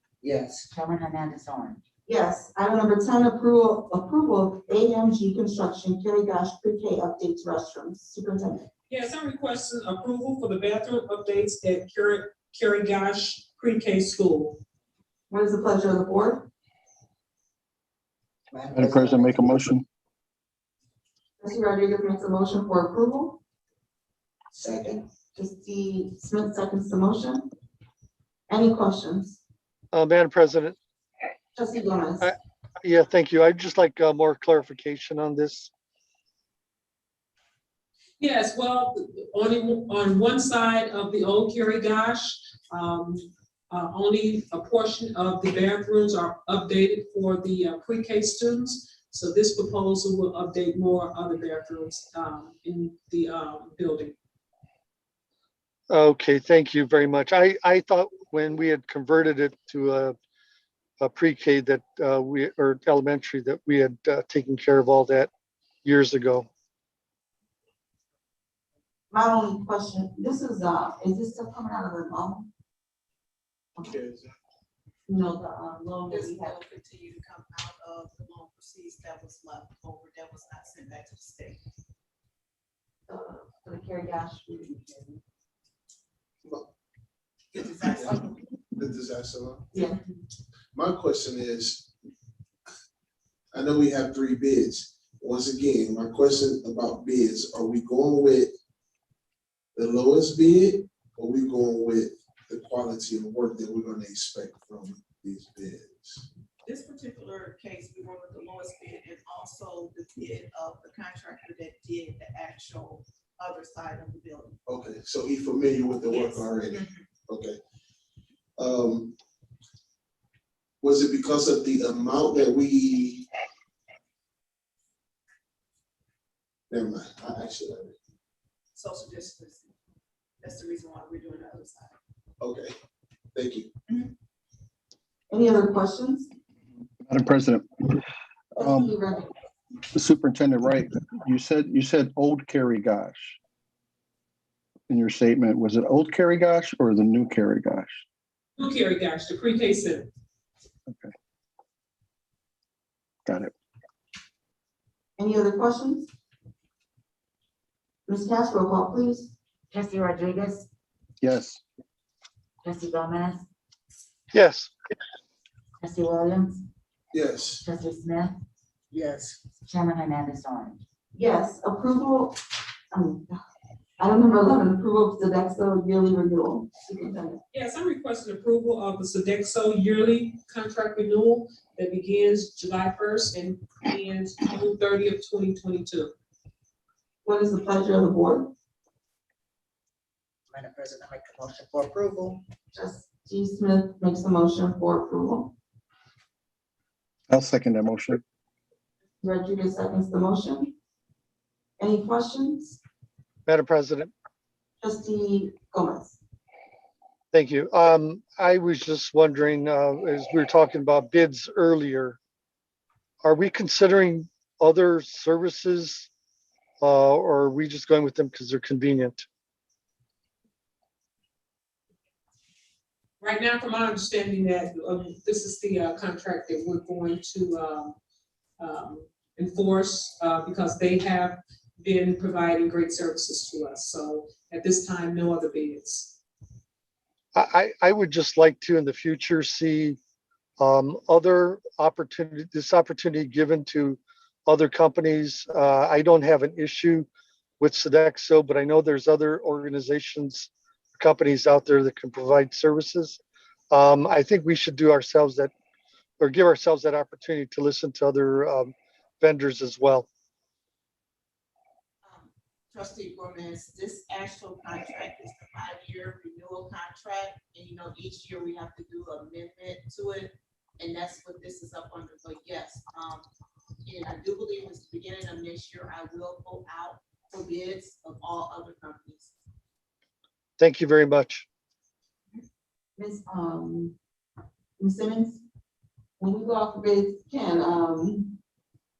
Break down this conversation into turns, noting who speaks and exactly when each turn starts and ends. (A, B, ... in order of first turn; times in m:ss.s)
0:00.2-0:00.5 A
0:00.6-0:01.8 B
0:02.1-0:08.7 C
0:08.9-0:14.6 D
0:15.3-0:16.5 C
0:18.5-0:19.6 A
0:18.7-0:19.8 E
0:21.4-0:23.4 C
0:24.5-0:25.0 A
0:25.3-0:27.5 C
0:28.5-0:29.4 C
0:29.9-0:30.8 F
0:31.5-0:32.3 C
0:32.2-0:35.7 F
0:38.2-0:54.2 D
0:55.9-1:00.2 F
1:01.0-1:05.3 F
1:05.8-1:06.5 F
1:09.1-1:12.5 C
1:13.8-1:14.3 G
1:15.1-1:16.6 C
1:16.1-1:21.6 H
1:23.1-1:25.2 C
1:27.5-1:28.4 H
1:27.6-1:29.8 G
1:29.7-1:30.0 C
1:30.7-1:31.9 G
1:33.5-1:38.5 G
1:39.7-1:46.2 G
1:46.6-1:54.6 H
1:54.6-1:57.6 G
1:56.1-1:57.0 H
1:58.6-1:59.1 G
2:00.8-2:03.2 G
2:06.7-2:07.9 G
2:08.7-2:09.7 H
2:10.4-2:12.0 H
2:12.4-2:12.7 G
2:13.3-2:13.7 G
2:15.3-2:16.3 C
2:17.0-2:18.0 E
2:18.6-2:18.9 E
2:18.6-2:19.3 C
2:19.9-2:23.4 E
2:24.9-2:27.9 E
2:28.6-2:30.1 D
2:33.2-2:33.5 E
2:35.2-2:36.1 C
2:38.1-2:39.3 C
2:39.7-2:40.7 B
2:41.2-2:41.6 E
2:42.6-2:43.4 B
2:44.3-2:44.7 F
2:45.8-2:46.6 B
2:47.1-2:47.6 G
2:47.6-2:48.4 B
2:48.9-2:49.4 A
2:49.6-2:50.8 B
2:51.1-2:52.4 C
2:52.9-2:53.4 C
2:54.0-2:57.4 C
2:57.5-3:06.1 D
3:07.2-3:08.5 C
3:10.5-3:12.4 A
3:12.7-3:15.5 C
3:17.3-3:18.2 E
3:19.2-3:20.7 C
3:21.8-3:22.8 C
3:23.5-3:24.1 F
3:24.8-3:26.2 C
3:27.3-3:32.2 F
3:33.2-3:36.1 F
3:36.8-3:39.2 F
3:43.2-3:48.0 D
3:48.6-3:56.2 D
3:57.3-4:00.0 F
4:00.6-4:07.1 F
4:07.6-4:15.5 F
4:16.2-4:20.1 F
4:22.0-4:33.3 H
4:33.8-4:39.3 H
4:40.6-4:41.4 F
4:43.0-4:43.9 C
4:44.8-4:45.4 C
4:46.2-4:48.4 C